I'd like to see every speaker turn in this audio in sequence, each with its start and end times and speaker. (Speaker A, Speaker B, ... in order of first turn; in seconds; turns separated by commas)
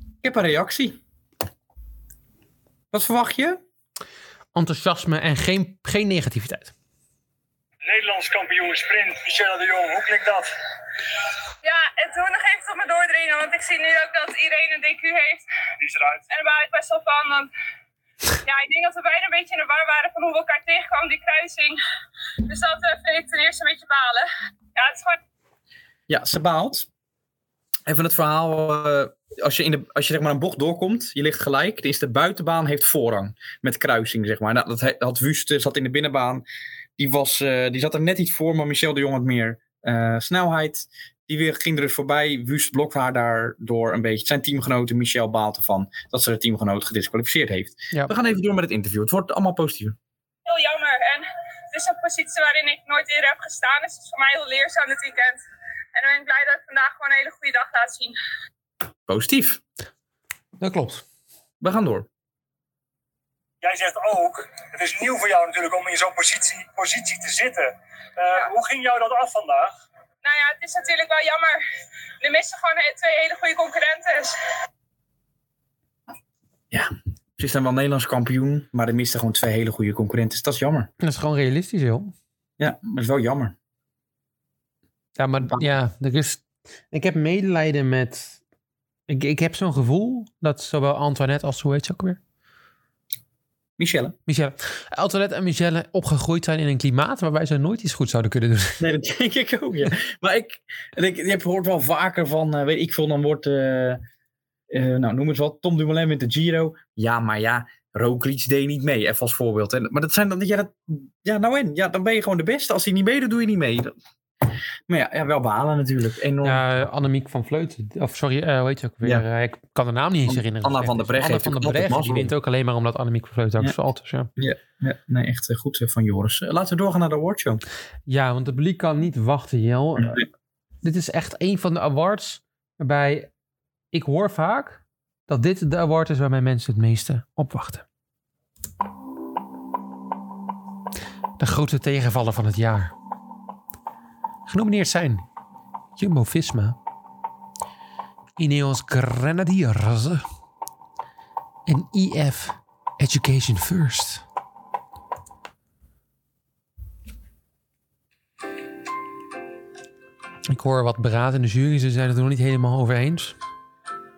Speaker A: 0.2-1.0, Speaker A: 2.9-3.6, Speaker B: 4.5-6.7, Speaker C: 7.8-10.5, Speaker D: 11.6-15.4, Speaker C: 15.8-16.2, Speaker D: 16.3-17.5, Speaker D: 18.4-21.8, Speaker D: 22.4-25.2, Speaker A: 26.1-26.9, Speaker A: 27.9-36.4, Speaker A: 37.0-50.0, Speaker D: 50.5-58.1, Speaker A: 59.1-59.6, Speaker B: 60.6-61.0, Speaker A: 61.6-62.1, Speaker C: 63.6-69.7, Speaker D: 70.2-71.6, Speaker D: 72.2-74.3, Speaker A: 76.7-80.9, Speaker B: 81.0-82.1, Speaker A: 82.6-83.5, Speaker B: 85.2-88.4, Speaker B: 89.1-92.2, Speaker A: 93.8-94.1, Speaker B: 94.3-98.8, Speaker A: 98.8-104.0, Speaker A: 104.7-113.9, Speaker A: 114.9-116.6, Speaker B: 116.4-124.3, Speaker A: 120.2-122.3, Speaker A: 124.4-127.6, Speaker B: 128.1-130.2, Speaker A: 130.0-130.2, Speaker B: 130.8-133.3, Speaker B: 133.9-137.8, Speaker B: 141.4-142.9, Speaker B: 144.5-145.2, Speaker B: 146.0-146.8, Speaker B: 148.4-150.2, Speaker B: 151.7-154.2, Speaker B: 160.5-163.3